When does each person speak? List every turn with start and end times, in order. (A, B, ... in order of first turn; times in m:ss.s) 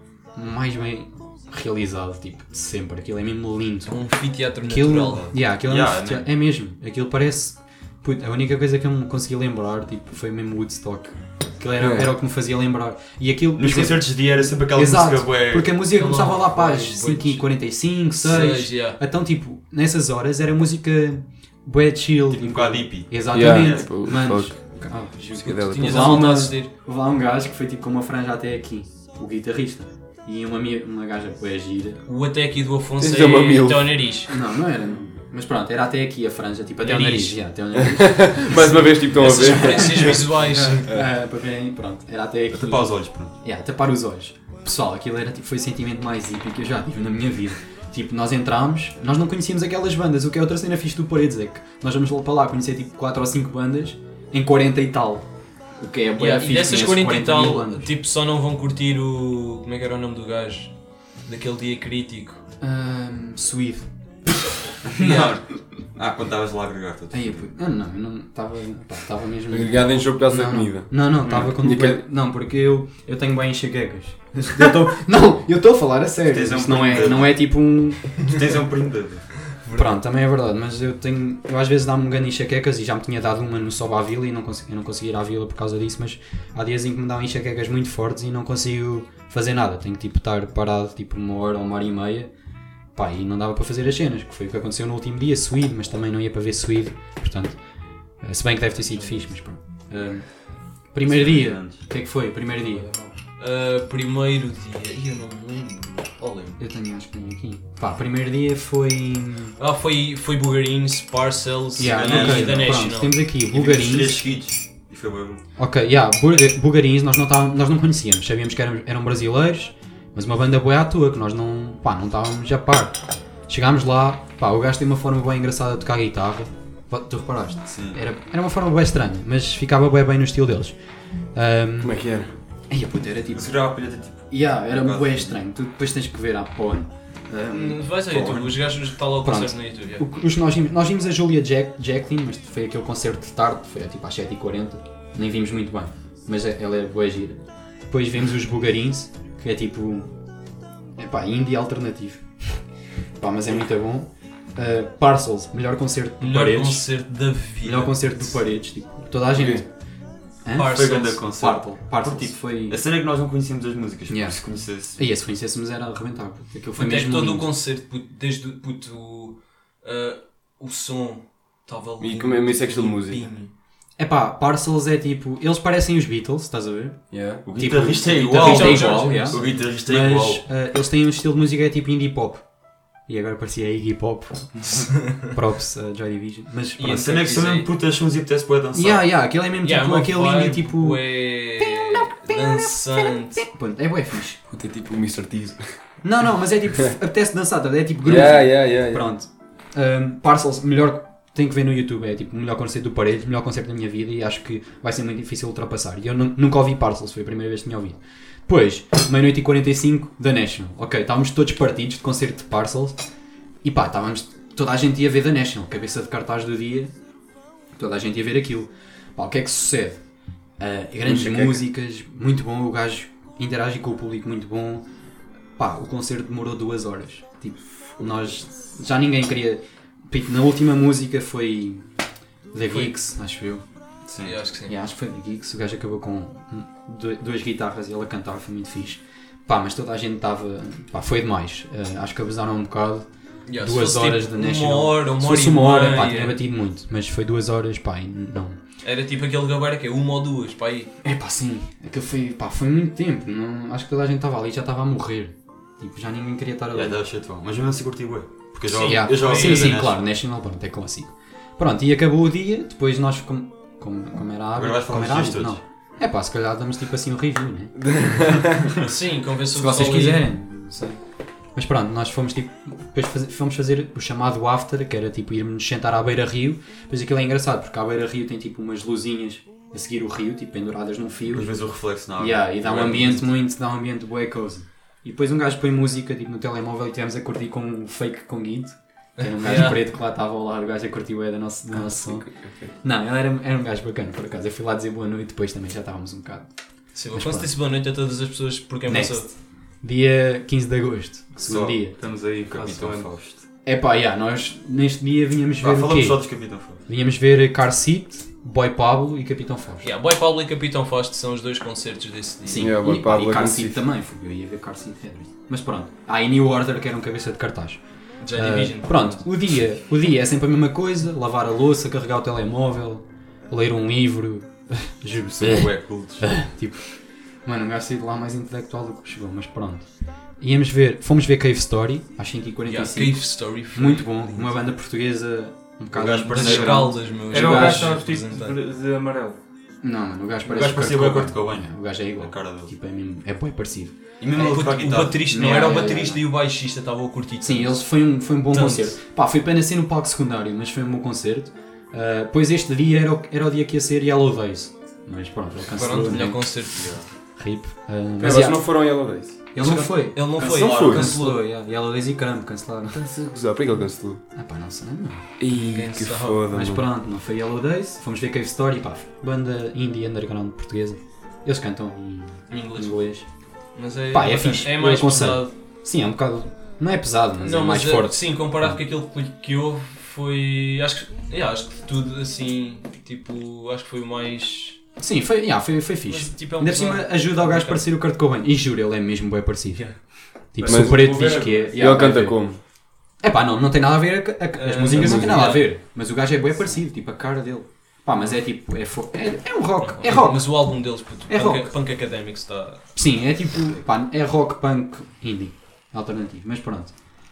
0:00.3-0:14.1 A
0:03.9-0:05.3 B
0:05.1-0:06.3 C
0:11.8-0:12.1 D
0:13.6-0:15.8 C
0:14.7-0:32.0 A
0:15.8-0:17.5 B
0:18.2-0:19.0 B
0:22.3-0:24.1 C
0:23.3-0:24.5 D
0:25.3-0:26.2 D
0:25.4-0:26.7 B
0:32.0-0:34.3 B
0:33.0-0:34.1 D
0:34.3-0:55.3 A
0:36.8-0:37.4 B
0:37.8-0:40.3 D
0:39.1-0:40.9 B
0:42.5-0:43.3 C
0:55.8-0:57.9 A
0:56.2-1:00.7 B
1:01.2-1:02.4 B
1:02.6-1:03.9 A
1:04.8-1:07.4 C
1:05.0-1:05.3 A
1:05.0-1:05.3 B
1:07.1-1:18.1 A
1:09.5-1:12.0 D
1:16.3-1:17.4 C
1:18.2-1:19.4 C
1:19.6-1:19.9 B
1:19.7-1:32.3 A
1:32.9-1:37.6 A
1:38.2-1:40.3 A
1:38.9-1:39.2 B
1:40.9-1:42.9 A
1:41.0-1:41.8 C
1:42.7-1:46.6 B
1:46.6-1:49.6 A
1:49.6-1:53.2 B
1:51.8-1:54.3 A
1:51.8-1:52.9 C
1:53.5-1:55.4 C
1:55.6-2:10.8 A
2:07.7-2:08.0 C
2:11.3-2:12.0 A
2:11.8-2:12.3 D
2:12.7-2:13.5 A
2:13.3-2:15.4 C
2:14.3-2:18.6 A
2:17.5-2:20.0 B
2:18.2-2:18.5 C
2:19.2-2:30.1 A
2:31.0-2:32.6 A
2:33.2-2:36.9 A
2:36.2-2:38.3 B
2:37.6-2:39.7 A
2:39.3-2:39.6 D
2:40.4-2:42.8 A
2:40.6-2:41.2 B
2:40.6-2:45.0 C
2:44.1-2:44.4 A
2:44.9-2:47.5 A
2:46.8-2:53.5 B
2:52.0-2:53.3 D
2:54.0-2:57.0 A
2:57.1-2:57.4 D
2:57.4-3:00.4 C
2:57.5-3:02.4 A
2:58.3-2:59.5 B
3:03.1-3:07.1 A
3:06.8-3:07.7 B
3:06.8-3:09.1 C
3:08.7-3:14.4 A
3:09.6-3:13.4 B
3:14.5-3:15.7 D
3:16.0-3:33.0 A
3:18.0-3:19.0 D
3:33.6-3:36.9 A
3:37.8-3:40.0 A
3:40.6-3:44.8 A
3:41.0-3:41.6 D
3:45.6-3:51.8 A
3:52.5-3:53.6 A
3:54.1-3:54.4 C
3:54.2-3:54.7 B
3:54.7-4:08.6 A
4:03.4-4:06.4 B
4:08.8-4:10.9 B
4:11.0-4:17.0 A
4:16.7-4:20.0 C
4:18.7-4:19.8 B
4:18.8-4:28.5 A
4:24.6-4:25.6 C
4:27.8-4:28.7 D
4:28.8-4:30.3 B
4:29.5-4:31.0 A
4:31.6-4:41.6 A
4:41.3-4:43.3 C
4:42.2-4:52.3 A
4:49.2-4:49.8 B
4:51.8-4:52.6 D
4:52.8-4:57.5 A
4:56.9-4:59.3 B
4:58.9-5:01.9 A
5:01.4-5:03.4 C
5:02.0-5:03.1 E
5:03.6-5:06.2 A
5:05.6-5:06.8 C
5:06.9-5:09.9 A
5:09.8-5:12.7 B
5:12.5-5:17.8 A
5:12.5-5:13.8 D
5:18.2-5:19.2 B
5:18.3-5:26.8 A
5:25.4-5:26.3 C
5:27.4-5:29.9 A
5:30.4-5:38.0 A
5:32.7-5:34.5 B
5:35.9-5:37.0 C
5:36.3-5:38.6 B
5:37.3-5:39.4 E
5:39.8-5:43.9 A
5:40.4-5:42.7 C
5:44.2-5:45.9 C
5:44.3-5:47.8 B
5:45.2-5:46.2 A
5:47.4-5:56.6 A
5:48.5-5:48.9 B
5:55.7-5:56.9 B
5:56.7-5:57.0 C
5:57.4-5:58.6 A
5:58.2-5:59.4 D
5:59.5-6:03.0 A
5:59.6-6:01.4 B
6:00.3-6:01.2 C
6:00.6-6:01.0 D
6:02.9-6:04.2 D
6:04.3-6:05.3 A
6:05.4-6:06.8 D
6:05.5-6:06.4 B
6:06.4-6:13.2 A
6:12.5-6:13.0 B
6:13.8-6:15.5 B
6:14.1-6:18.8 A
6:17.4-6:24.8 B
6:25.0-6:29.8 A
6:26.1-6:27.8 B
6:30.5-6:32.4 A
6:30.6-6:32.6 D
6:30.6-6:31.7 E
6:33.2-6:41.7 A
6:34.6-6:35.7 B
6:34.9-6:35.5 D
6:39.8-6:42.8 B
6:43.0-6:46.9 A